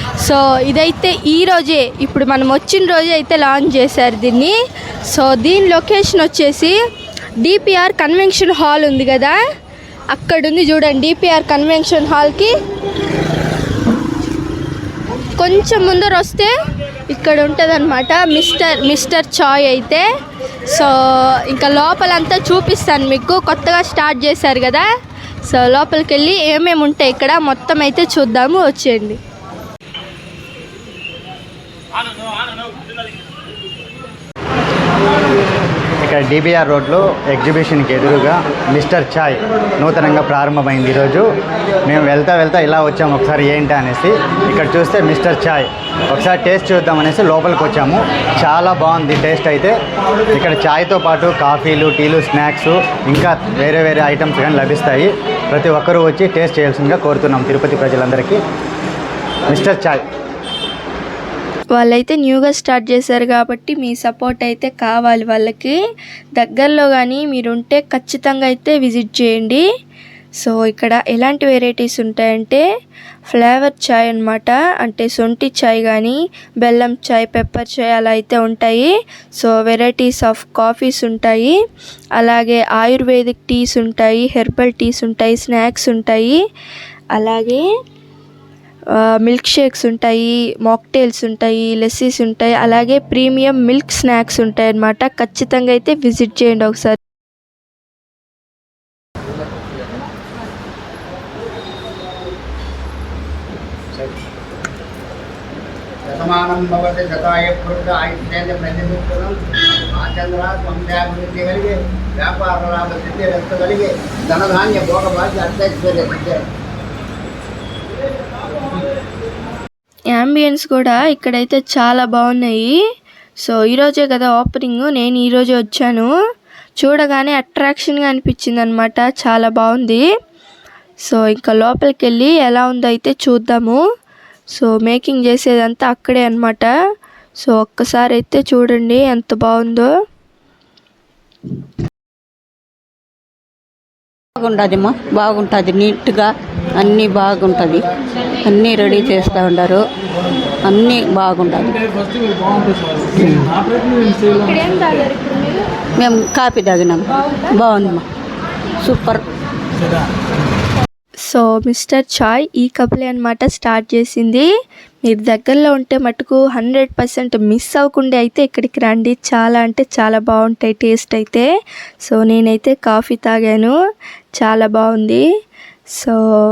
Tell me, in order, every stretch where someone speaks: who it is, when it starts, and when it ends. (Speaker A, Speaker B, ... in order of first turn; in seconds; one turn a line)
Speaker A: 0.2-4.5
Speaker A: 5.1-6.8
Speaker A: 7.4-9.4
Speaker A: 10.1-12.5
Speaker A: 15.4-16.5
Speaker A: 17.1-20.1
Speaker A: 20.7-24.9
Speaker A: 25.5-29.2
Speaker B: 36.0-41.3
Speaker B: 41.8-49.8
Speaker B: 50.3-58.4
Speaker B: 59.5-60.0
Speaker A: 61.7-65.8
Speaker A: 66.4-69.6
Speaker A: 70.4-72.6
Speaker A: 73.3-81.5
Speaker A: 82.2-86.4
Speaker A: 87.1-87.6
Speaker A: 88.9-97.0
Speaker C: 106.1-116.4
Speaker A: 120.1-122.8
Speaker A: 123.4-126.1
Speaker A: 126.8-130.1
Speaker A: 131.1-133.8
Speaker A: 134.5-136.7
Speaker A: 137.4-139.9
Speaker D: 144.4-147.9
Speaker D: 148.4-149.8
Speaker D: 150.6-151.8
Speaker D: 153.1-153.6
Speaker D: 155.9-158.0
Speaker D: 158.8-159.2
Speaker A: 161.2-164.5
Speaker A: 165.1-171.5
Speaker A: 172.0-173.7
Speaker A: 174.4-175.2